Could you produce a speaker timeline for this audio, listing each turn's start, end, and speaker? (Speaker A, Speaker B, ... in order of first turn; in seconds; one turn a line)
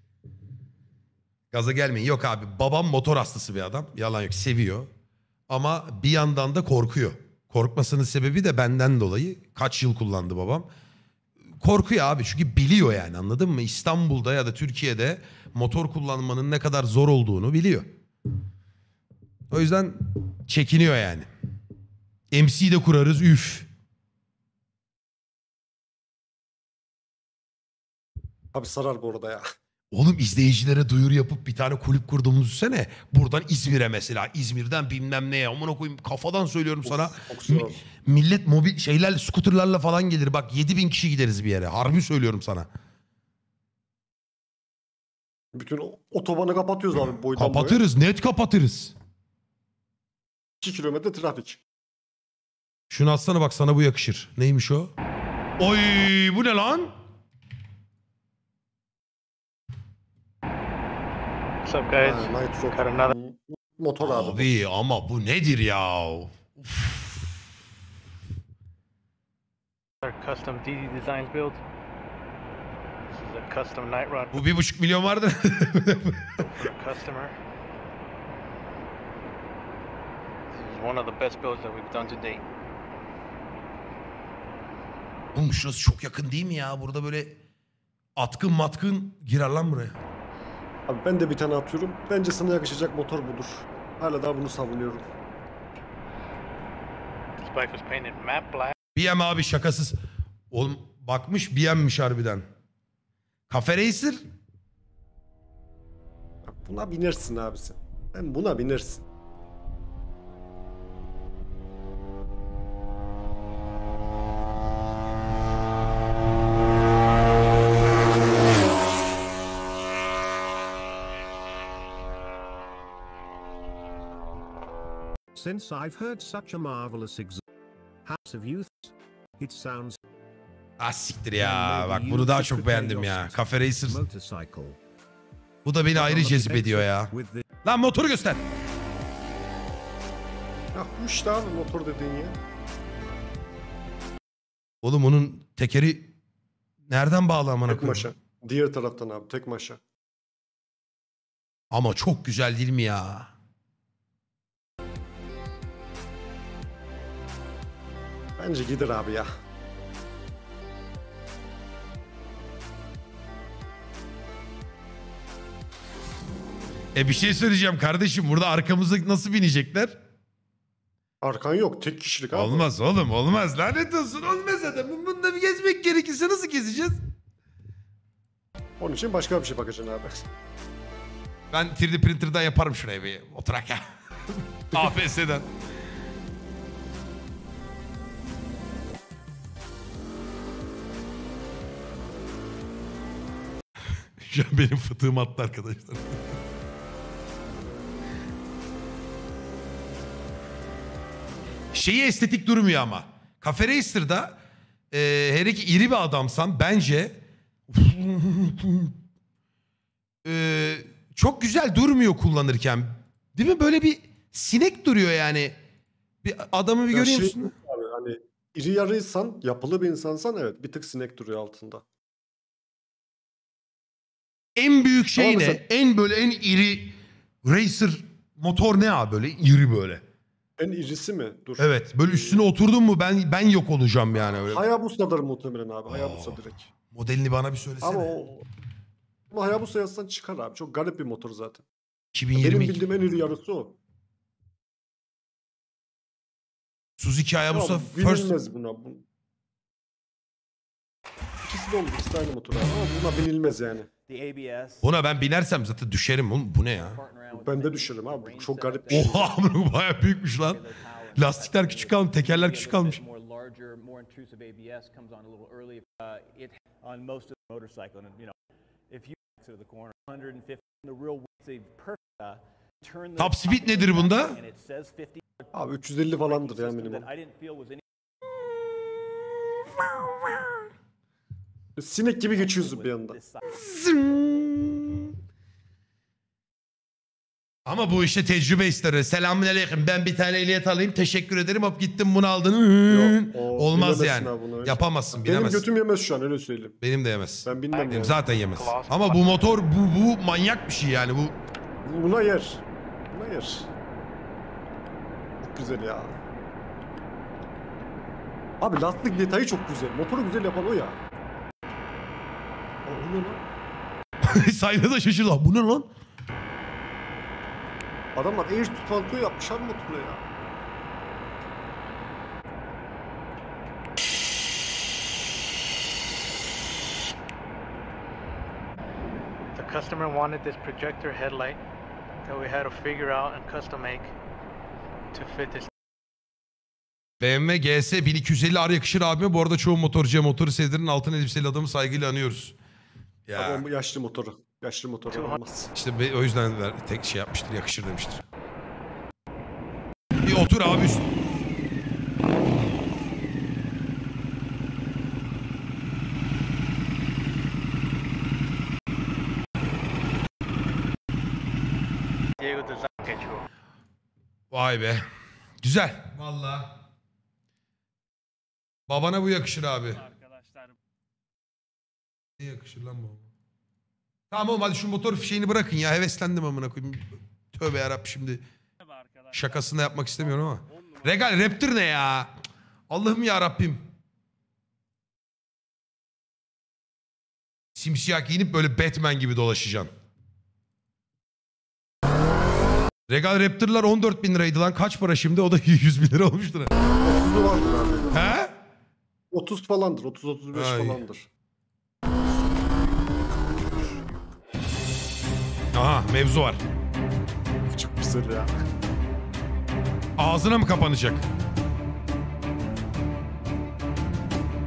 Speaker A: 1.5-4.9
Speaker A: 5.5-10.7
Speaker A: 11.6-17.9
Speaker A: 19.5-21.3
Speaker A: 22.3-23.7
Speaker B: 28.5-29.4
Speaker A: 29.9-42.7
Speaker B: 36.9-37.8
Speaker B: 45.5-47.8
Speaker A: 47.4-48.9
Speaker B: 50.6-51.6
Speaker A: 52.9-54.9
Speaker A: 55.6-56.9
Speaker C: 61.6-63.1
Speaker B: 61.9-64.5
Speaker A: 64.0-67.3
Speaker C: 70.0-71.6
Speaker C: 73.1-74.4
Speaker A: 74.3-76.5
Speaker C: 76.6-77.3
Speaker C: 80.5-82.4
Speaker A: 85.3-87.4
Speaker A: 88.2-90.0
Speaker B: 90.9-95.1
Speaker C: 97.4-98.7
Speaker A: 99.0-100.0
Speaker A: 100.5-102.5
Speaker A: 103.5-104.2
Speaker B: 106.5-109.0
Speaker D: 125.3-127.4
Speaker D: 128.1-130.0
Speaker A: 130.8-134.0
Speaker D: 131.4-134.8
Speaker A: 135.7-137.1
Speaker D: 135.9-137.4
Speaker A: 137.6-138.4
Speaker B: 140.7-142.4
Speaker A: 144.8-146.1
Speaker A: 146.9-148.1
Speaker B: 147.7-149.8
Speaker A: 151.7-153.3
Speaker B: 158.4-159.3
Speaker A: 166.9-170.0
Speaker B: 171.2-172.7
Speaker A: 172.3-177.0
Speaker B: 178.8-180.2
Speaker A: 181.5-183.8
Speaker A: 184.7-185.5
Speaker A: 194.2-196.2
Speaker A: 201.7-204.4
Speaker A: 204.9-208.9
Speaker A: 210.2-215.6
Speaker A: 216.2-217.5
Speaker B: 216.9-221.8
Speaker A: 224.6-230.0
Speaker B: 225.2-225.6
Speaker B: 230.6-232.4
Speaker A: 231.6-234.7
Speaker B: 234.4-236.7
Speaker A: 235.9-238.2
Speaker B: 237.8-238.5
Speaker B: 239.3-241.7
Speaker A: 242.1-242.9
Speaker B: 242.4-243.8
Speaker A: 247.0-248.3
Speaker B: 247.5-249.1
Speaker B: 251.4-253.9
Speaker E: 254.1-254.9
Speaker A: 254.8-257.0
Speaker E: 256.8-259.6
Speaker B: 257.3-259.4
Speaker A: 258.9-260.6
Speaker E: 260.5-268.4
Speaker A: 261.1-263.0
Speaker E: 268.9-277.8
Speaker A: 273.2-274.4
Speaker B: 275.5-277.1
Speaker B: 281.8-283.2
Speaker E: 282.3-283.6
Speaker A: 283.5-285.1
Speaker A: 287.7-295.7
Speaker B: 292.9-296.8
Speaker A: 296.8-301.4
Speaker B: 297.4-298.2
Speaker C: 297.7-299.4
Speaker B: 301.8-303.7
Speaker B: 305.4-306.2
Speaker B: 308.6-311.0
Speaker B: 312.9-313.4
Speaker A: 314.2-315.9
Speaker B: 318.2-320.2
Speaker C: 329.6-331.6
Speaker C: 332.2-334.1
Speaker C: 335.1-335.7
Speaker A: 337.2-342.6
Speaker A: 343.3-343.6
Speaker B: 343.4-345.7
Speaker C: 345.1-345.4
Speaker A: 345.7-348.2
Speaker A: 350.2-351.1
Speaker C: 362.4-363.5
Speaker A: 364.5-365.0
Speaker A: 365.6-366.8
Speaker A: 368.9-370.1
Speaker A: 372.4-373.3
Speaker A: 374.3-378.4
Speaker A: 379.3-382.3
Speaker A: 382.9-383.8
Speaker A: 387.8-389.9
Speaker A: 393.1-396.7
Speaker B: 397.0-398.2
Speaker A: 398.1-398.6
Speaker B: 399.3-401.3
Speaker A: 400.5-401.0
Speaker A: 405.7-406.6
Speaker B: 407.7-408.5
Speaker A: 410.2-411.2